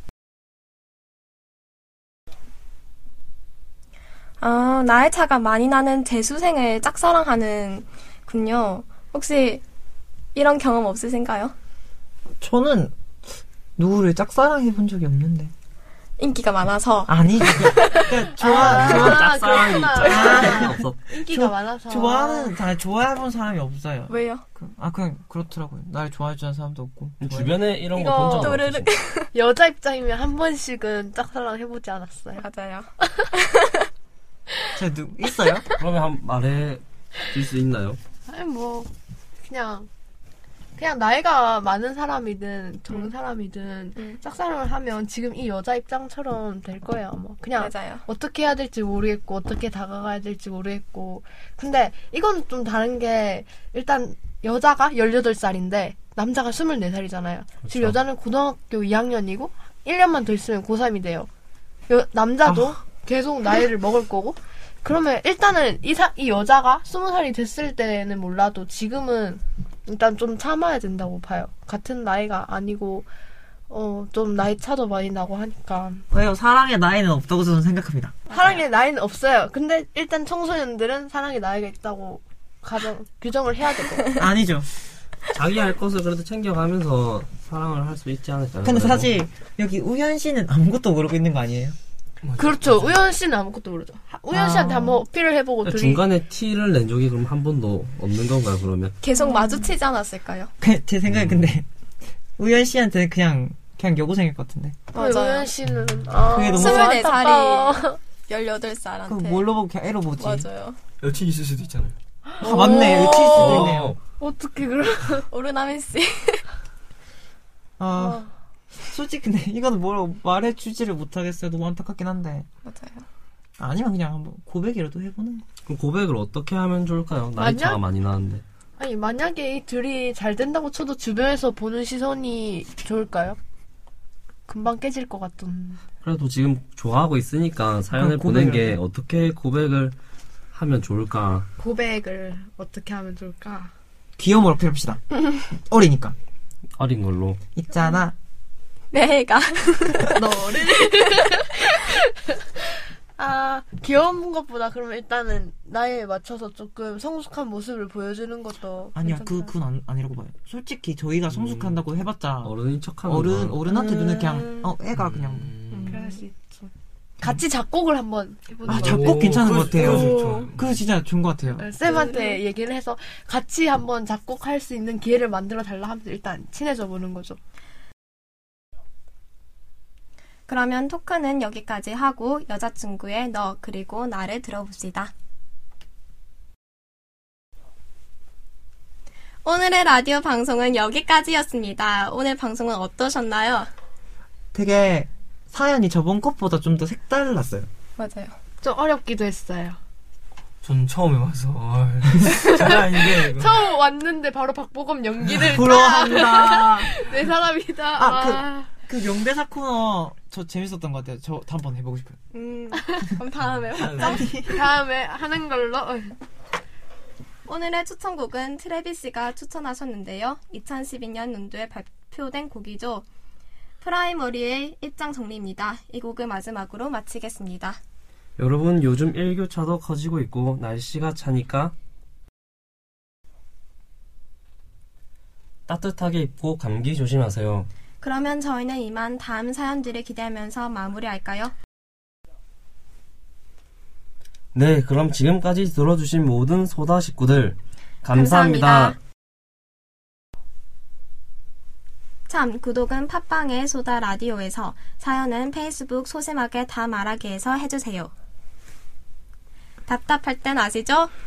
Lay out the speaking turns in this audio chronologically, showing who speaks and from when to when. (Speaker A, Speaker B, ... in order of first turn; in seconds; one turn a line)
Speaker A: 4.4-9.6
Speaker A: 10.3-11.6
Speaker B: 12.4-13.0
Speaker B: 13.8-15.5
Speaker A: 16.2-18.4
Speaker B: 17.1-19.4
Speaker C: 18.4-22.5
Speaker D: 18.5-21.0
Speaker B: 20.0-27.6
Speaker A: 24.1-24.4
Speaker D: 27.2-28.9
Speaker C: 27.9-28.6
Speaker A: 28.3-29.3
Speaker C: 29.3-32.5
Speaker A: 32.4-33.8
Speaker B: 34.8-35.7
Speaker D: 35.8-38.0
Speaker C: 38.3-38.9
Speaker C: 39.4-39.9
Speaker C: 40.8-61.3
Speaker A: 47.6-48.0
Speaker D: 57.6-58.0
Speaker C: 61.9-73.1
Speaker C: 73.7-76.0
Speaker B: 76.1-78.4
Speaker C: 78.3-84.2
Speaker B: 84.2-84.7
Speaker D: 85.3-89.1
Speaker B: 88.6-91.8
Speaker E: 92.2-93.0
Speaker C: 92.4-96.0
Speaker B: 94.3-95.0
Speaker D: 95.6-99.0
Speaker A: 99.0-100.5
Speaker C: 99.2-99.7
Speaker B: 100.6-101.7
Speaker B: 102.4-104.8
Speaker A: 104.9-105.5
Speaker C: 104.9-108.0
Speaker B: 106.3-107.0
Speaker A: 106.5-109.5
Speaker B: 109.1-110.5
Speaker A: 110.2-110.8
Speaker E: 111.0-112.0
Speaker C: 112.3-115.3
Speaker B: 112.4-113.9
Speaker A: 112.5-113.5
Speaker D: 113.3-114.0
Speaker A: 115.3-116.5
Speaker B: 117.8-122.5
Speaker C: 118.0-118.3
Speaker A: 122.6-123.0
Speaker B: 123.6-125.5
Speaker D: 125.7-128.4
Speaker C: 127.4-127.8
Speaker C: 128.8-133.4
Speaker C: 134.5-135.8
Speaker D: 136.0-140.0
Speaker B: 137.9-138.8
Speaker D: 140.5-141.5
Speaker C: 141.6-143.7
Speaker B: 144.2-146.2
Speaker D: 146.8-147.4
Speaker B: 147.5-148.2
Speaker A: 148.9-150.2
Speaker C: 150.1-152.7
Speaker C: 153.2-159.5
Speaker B: 158.9-165.5
Speaker D: 161.3-161.8
Speaker D: 162.4-164.6
Speaker E: 164.9-165.9
Speaker C: 165.8-170.5
Speaker B: 168.7-171.7
Speaker E: 168.7-170.8
Speaker D: 169.5-169.8
Speaker C: 171.6-177.4
Speaker A: 171.8-172.4
Speaker A: 180.5-185.1
Speaker A: 189.4-193.7
Speaker B: 194.5-197.7
Speaker A: 198.0-198.3
Speaker C: 198.6-199.8
Speaker E: 200.6-203.7
Speaker C: 202.3-208.7
Speaker B: 205.4-206.9
Speaker B: 208.0-212.2
Speaker A: 212.3-214.3
Speaker C: 212.8-213.1
Speaker E: 213.8-214.2
Speaker B: 214.0-214.6
Speaker C: 214.0-216.2
Speaker A: 217.4-223.1
Speaker A: 223.8-227.8
Speaker D: 228.4-231.7
Speaker D: 235.7-237.7
Speaker A: 238.0-241.6
Speaker D: 244.5-249.0
Speaker A: 248.1-249.0
Speaker A: 252.3-258.1
Speaker A: 259.9-261.1